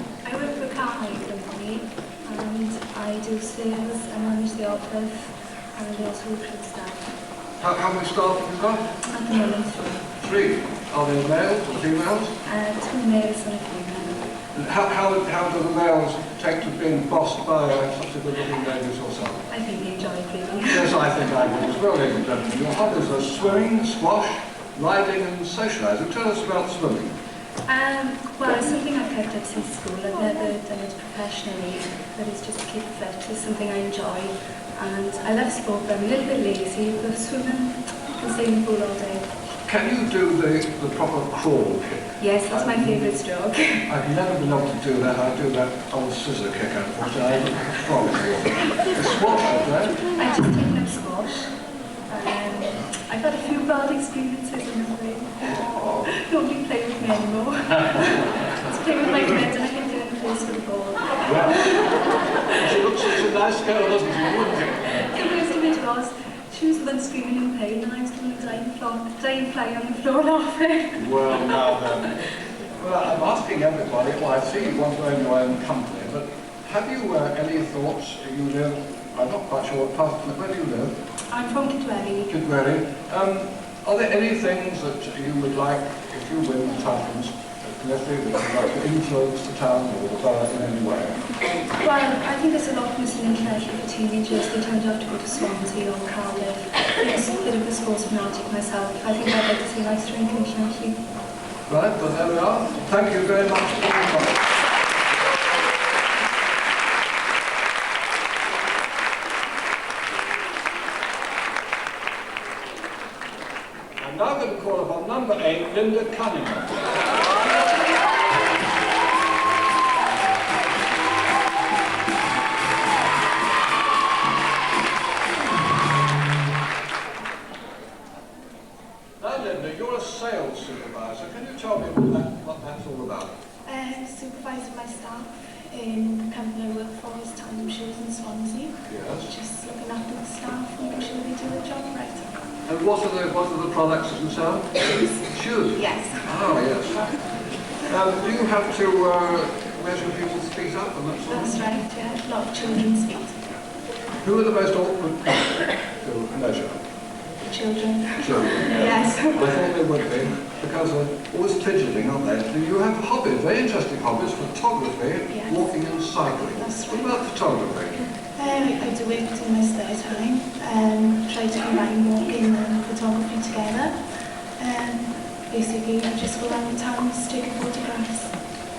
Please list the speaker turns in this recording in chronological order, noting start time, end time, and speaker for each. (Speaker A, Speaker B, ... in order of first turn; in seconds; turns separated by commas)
Speaker A: 0.2-7.0, Speaker B: 7.6-8.8, Speaker A: 9.0-10.0, Speaker B: 10.2-12.3, Speaker A: 12.4-14.3, Speaker B: 14.5-19.4, Speaker A: 19.5-20.9, Speaker B: 20.7-27.1, Speaker A: 27.6-39.3, Speaker B: 39.7-43.1, Speaker A: 42.2-43.9, Speaker B: 43.9-50.0, Speaker A: 50.0-51.5, Speaker A: 52.1-61.9, Speaker B: 55.5-56.1, Speaker B: 61.2-61.9, Speaker B: 62.5-65.1, Speaker A: 65.1-72.1, Speaker B: 70.9-72.1, Speaker B: 72.8-80.9, Speaker A: 81.3-82.4, Speaker B: 82.3-91.2, Speaker A: 91.8-101.0, Speaker B: 101.7-104.4, Speaker B: 114.0-116.9, Speaker B: 129.2-133.3, Speaker C: 133.7-142.3, Speaker B: 138.9-139.3, Speaker B: 142.7-147.2, Speaker C: 145.8-146.3, Speaker B: 147.8-151.6, Speaker C: 151.3-153.4, Speaker B: 154.2-156.8, Speaker C: 157.5-159.6, Speaker B: 158.2-168.0, Speaker C: 165.3-165.6, Speaker C: 166.4-167.1, Speaker C: 168.3-174.0, Speaker C: 174.6-178.3